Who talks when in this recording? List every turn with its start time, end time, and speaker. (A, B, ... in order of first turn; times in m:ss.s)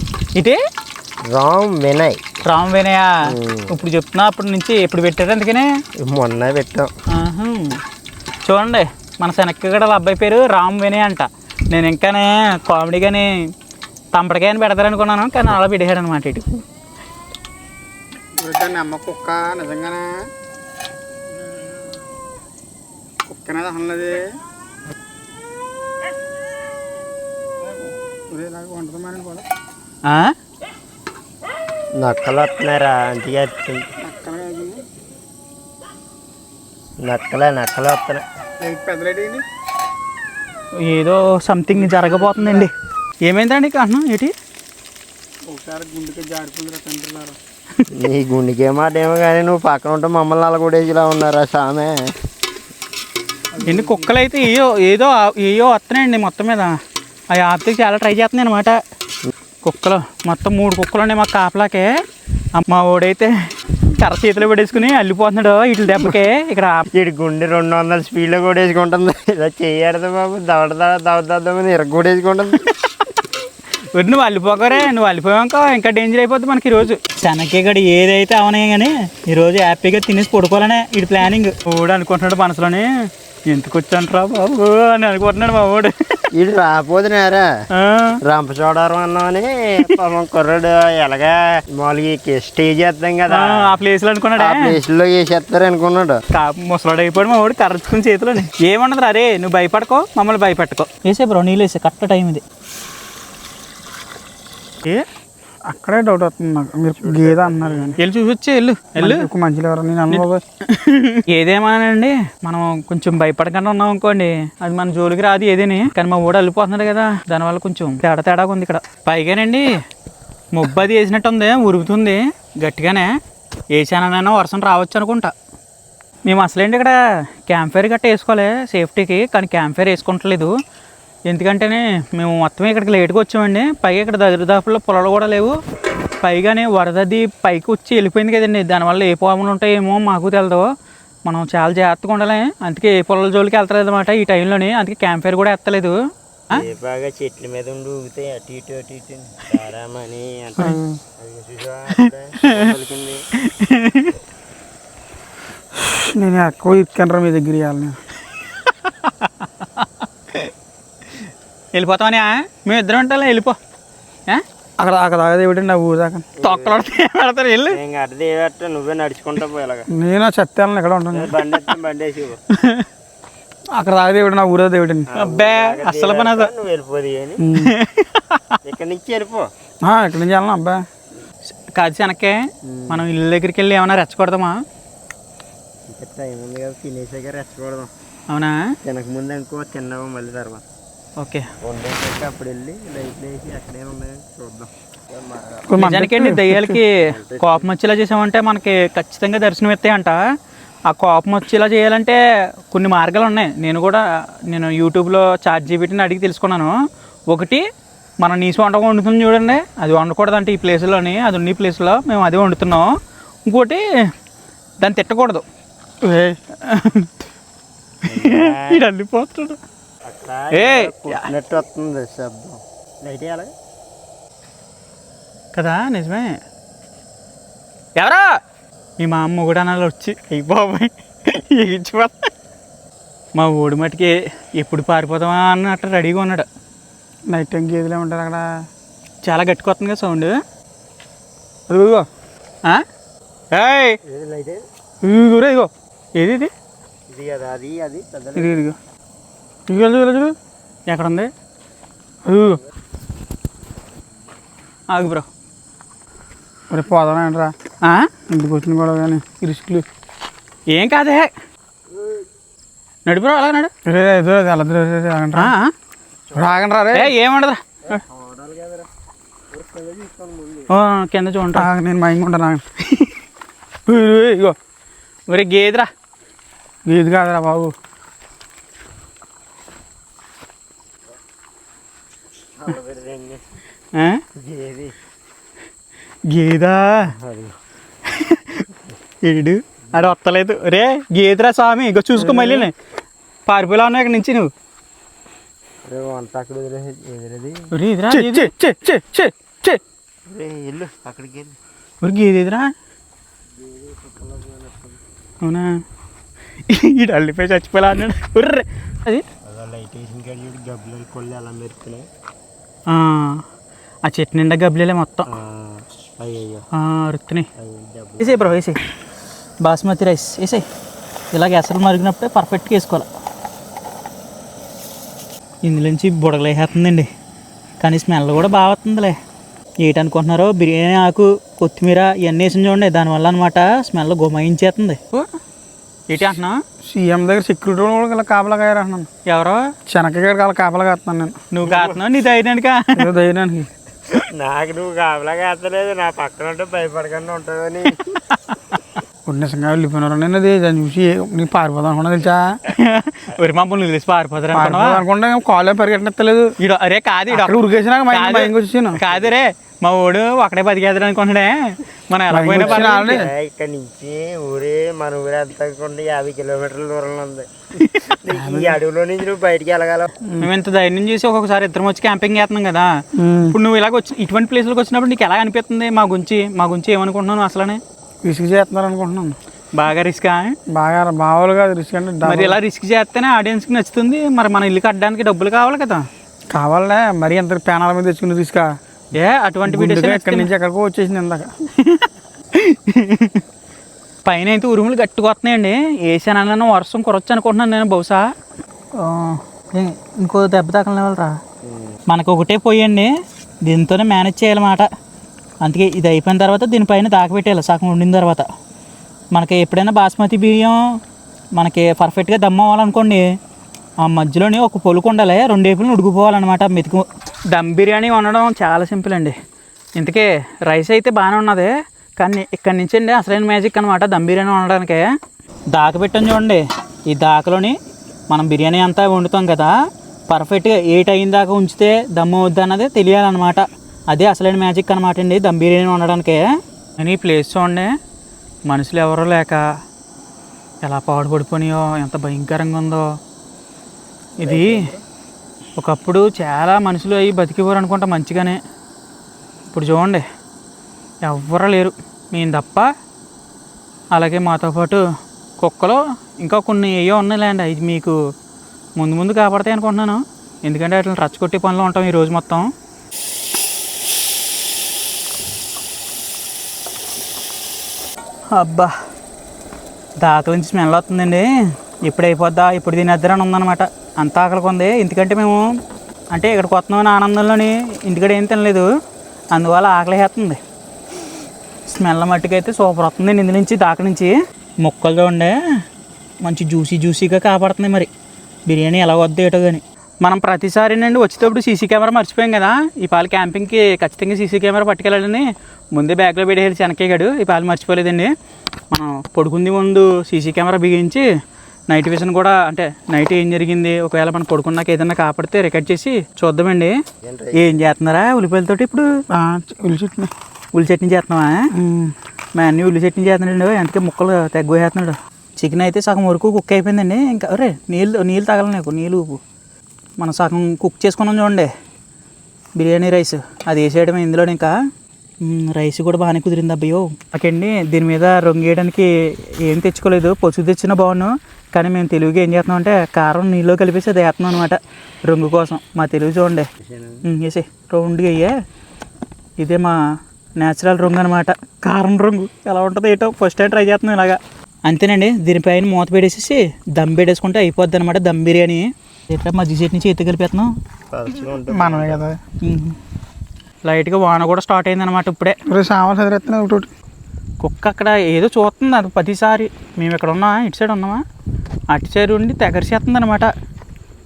0:01.2-0:02.2 A
0:02.4-0:05.7 B
0:03.3-0:03.7 A
0:06.0-0:06.9 A
0:07.1-0:07.8 B
0:08.4-0:13.3 B
0:14.1-0:16.6 B
0:18.4-0:20.3 C
0:23.2-0:24.3 C
0:27.6-0:29.5 C
0:30.0-0:30.3 B
0:32.0-0:33.9 A
0:34.0-0:34.8 C
0:37.0-0:38.2 A
0:38.6-0:39.4 C
0:40.8-0:42.7 B
0:41.7-0:42.7 C
0:43.2-0:44.3 B
0:45.4-0:47.4 C
0:47.9-0:52.1 A
0:53.5-0:54.1 C
0:53.6-0:56.8 B
0:57.3-0:58.8 B
0:59.6-1:01.9 B
1:02.6-1:03.3 B
1:03.9-1:06.9 B
1:06.9-1:12.6 A
1:12.6-1:13.0 B
1:13.9-1:26.2 B
1:26.3-1:27.5 A
1:27.7-1:28.2 B
1:28.2-1:33.8 A
1:33.3-1:34.8 B
1:34.4-1:36.2 A
1:36.3-1:42.4 B
1:45.7-1:48.0 C
1:47.0-1:48.0 A
1:48.0-1:49.3 B
1:49.0-1:50.4 C
1:50.1-1:59.7 B
2:00.5-2:03.1 B
2:03.7-2:05.3 B
2:06.2-2:10.5 B
2:11.3-2:15.6 B
2:16.2-2:20.7 B
2:21.2-2:26.0 B
2:26.5-2:33.2 A
2:30.6-2:31.0 C
2:32.4-2:32.7 B
2:33.4-2:34.2 B
2:35.8-2:38.0 C
2:39.0-2:39.9 B
2:41.7-2:43.6 B
2:44.8-2:46.3 C
2:46.4-2:46.8 A
2:46.4-2:47.8 B
2:47.7-2:49.9 A
2:49.9-2:51.3 C
2:51.1-2:52.4 A
2:53.7-2:55.1 C
2:55.1-2:57.4 A
2:55.2-2:56.5 B
2:57.4-2:57.7 C
2:57.6-2:58.6 B
2:58.6-2:59.5 A
2:59.8-3:00.8 C
3:01.5-3:04.6 B
3:02.6-3:03.0 A
3:05.9-3:07.9 A
3:08.3-3:08.6 B
3:08.8-3:10.6 A
3:11.2-3:11.5 B
3:11.6-3:15.7 A
3:15.7-3:16.8 C
3:15.8-3:20.2 B
3:17.0-3:17.7 A
3:20.9-3:26.8 B
3:27.3-3:27.6 B
3:28.2-3:32.9 B
3:33.4-3:33.8 B
3:34.8-3:35.4 B
3:36.0-3:36.4 C
3:36.6-3:37.1 B
3:38.0-3:39.6 B
3:38.1-3:38.8 A
3:40.0-3:43.5 A
3:40.5-3:41.3 B
3:45.5-3:46.4 B
3:48.0-3:48.3 B
3:49.0-3:52.3 B
3:53.4-3:56.4 B
3:57.3-3:58.4 C
3:59.2-4:00.4 B
4:01.7-4:02.1 C
4:03.5-4:04.0 B
4:04.0-4:04.6 A
4:05.0-4:05.7 C
4:06.2-4:06.5 B
4:07.1-4:08.6 A
4:08.4-4:08.7 C
4:09.7-4:10.3 C
4:10.9-4:11.3 B
4:12.2-4:12.6 C
4:14.9-4:15.3 B
4:16.7-4:17.5 C
4:17.8-4:18.1 B
4:18.3-4:19.8 C
4:20.7-4:21.3 B
4:23.0-4:23.7 B
4:23.8-4:25.5 C
4:25.4-4:25.7 B
4:26.3-4:26.6 A
4:26.3-4:27.1 C
4:26.9-4:28.0 B
4:27.9-4:28.9 A
4:29.5-4:30.7 A
4:30.7-4:31.7 B
4:31.6-4:32.6 C
4:33.9-4:34.6 C
4:35.3-4:35.9 B
4:36.9-4:37.7 C
4:42.6-4:43.6 A
4:43.9-4:44.2 B
4:44.3-4:45.0 A
4:46.3-4:47.1 B
4:47.0-4:47.6 A
4:48.1-4:48.6 B
4:49.2-4:52.7 B
4:52.2-4:52.7 C
4:53.5-4:54.5 B
4:55.9-4:57.7 A
4:57.7-4:58.5 B
4:58.1-4:59.8 C
5:00.3-5:01.6 A
5:02.0-5:02.7 B
5:03.6-5:05.0 A
5:05.4-5:05.8 B
5:06.7-5:09.2 B
5:09.4-5:12.1 A
5:12.9-5:13.4 B
5:14.0-5:15.3 B
5:15.3-5:16.6 A
5:16.7-5:17.5 B
5:17.6-5:18.6 A
5:18.2-5:18.8 B
5:19.6-5:20.6 B
5:21.3-5:23.0 B
5:25.6-5:27.1 B
5:27.8-5:29.2 B
5:29.8-5:35.3 B
5:36.1-5:36.6 B
5:36.8-5:39.1 C
5:39.2-5:39.6 B
5:39.9-5:41.4 C
5:41.5-5:43.1 B
5:41.6-5:42.0 A
5:42.9-5:43.7 C
5:44.3-5:48.1 A
5:48.3-5:48.8 B
5:49.3-5:52.6 C
5:52.7-5:55.0 B
5:54.5-5:56.5 C
5:56.6-5:57.6 B
5:57.3-5:59.0 C
5:58.1-6:03.1 B
6:02.3-6:03.3 C
6:02.6-6:07.5 A
6:07.8-6:08.7 B
6:08.0-6:10.1 A
6:10.4-6:12.9 B
6:13.2-6:13.6 C
6:13.5-6:17.8 B
6:18.2-6:19.4 C
6:19.7-6:20.6 B
6:20.7-6:22.6 C
6:22.2-6:26.1 B
6:26.5-6:28.7 C
6:29.1-6:30.5 B
6:29.6-6:31.5 C
6:31.8-6:33.4 B
6:34.2-6:38.2 B
6:39.0-6:41.4 B
6:41.6-6:42.0 A
6:42.1-6:43.1 B
6:43.6-6:44.9 B
6:45.6-6:48.5 B
6:49.3-6:50.8 B
6:51.6-6:53.2 B
6:54.0-6:59.4 B
7:00.0-7:05.1 B
7:05.7-7:07.8 B
7:08.3-7:09.8 B
7:10.3-7:17.9 B
7:18.7-7:19.6 B
7:20.8-7:23.0 B
7:24.4-7:25.0 A
7:24.4-7:24.9 B
7:25.8-7:28.6 B
7:29.7-7:30.2 B
7:31.2-7:32.9 B
7:34.1-7:35.0 B
7:35.6-7:38.2 B
7:39.0-7:42.7 B
7:48.5-7:48.9 B
7:50.2-7:51.5 B
7:52.0-7:55.6 B
7:56.3-7:58.9 B
7:59.5-8:00.6 B
8:01.9-8:05.6 B
8:06.4-8:08.1 B
8:08.7-8:18.3 B
8:18.9-8:21.2 B
8:21.9-8:27.0 B
8:27.2-8:27.9 A
8:27.5-8:29.1 B
8:29.3-8:30.3 C
8:30.8-8:31.7 B
8:31.8-8:32.1 C
8:32.5-8:39.4 B
8:40.2-8:41.7 B
8:42.8-8:44.7 B
8:45.4-8:49.1 B
8:49.6-8:56.7 B
8:56.8-8:57.2 A
8:57.2-8:58.6 B
8:59.6-9:00.0 B
9:00.6-9:10.7 B
9:11.1-9:12.3 A
9:11.7-9:12.4 C
9:12.6-9:13.0 B
9:13.8-9:15.6 B
9:15.7-9:16.9 C
9:17.6-9:21.2 B
9:21.9-9:23.5 B